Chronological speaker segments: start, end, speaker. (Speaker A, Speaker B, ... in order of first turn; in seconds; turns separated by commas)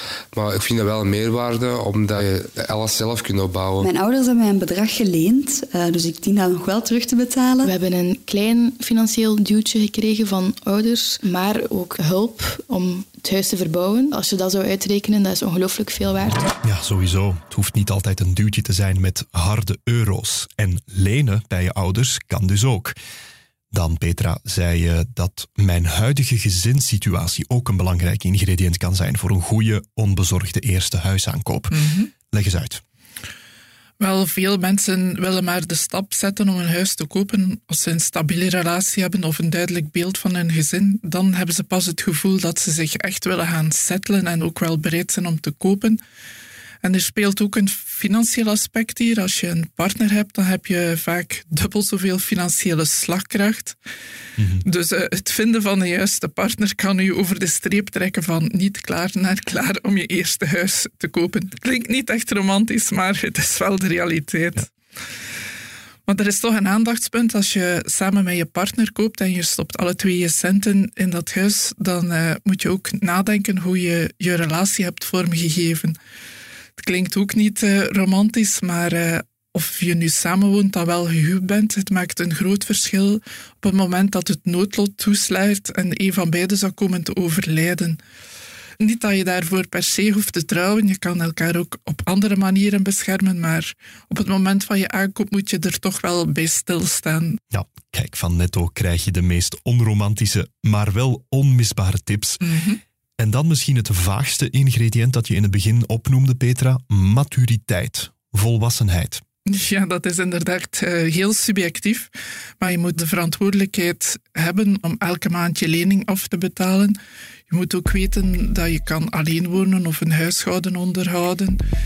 Speaker A: 0.3-3.9, Speaker B: 3.8-7.7, Speaker C: 7.6-16.5, Speaker D: 16.6-22.9, Speaker D: 23.7-31.8, Speaker E: 31.7-32.1, Speaker D: 32.3-32.8, Speaker E: 34.0-46.0, Speaker E: 46.8-53.8, Speaker D: 54.4-54.6, Speaker E: 54.6-64.7, Speaker E: 66.1-76.0, Speaker E: 76.8-88.0, Speaker E: 88.8-97.4, Speaker D: 97.5-102.4, Speaker E: 102.4-102.8, Speaker D: 103.2-109.2, Speaker E: 109.5-117.0, Speaker E: 117.5-121.6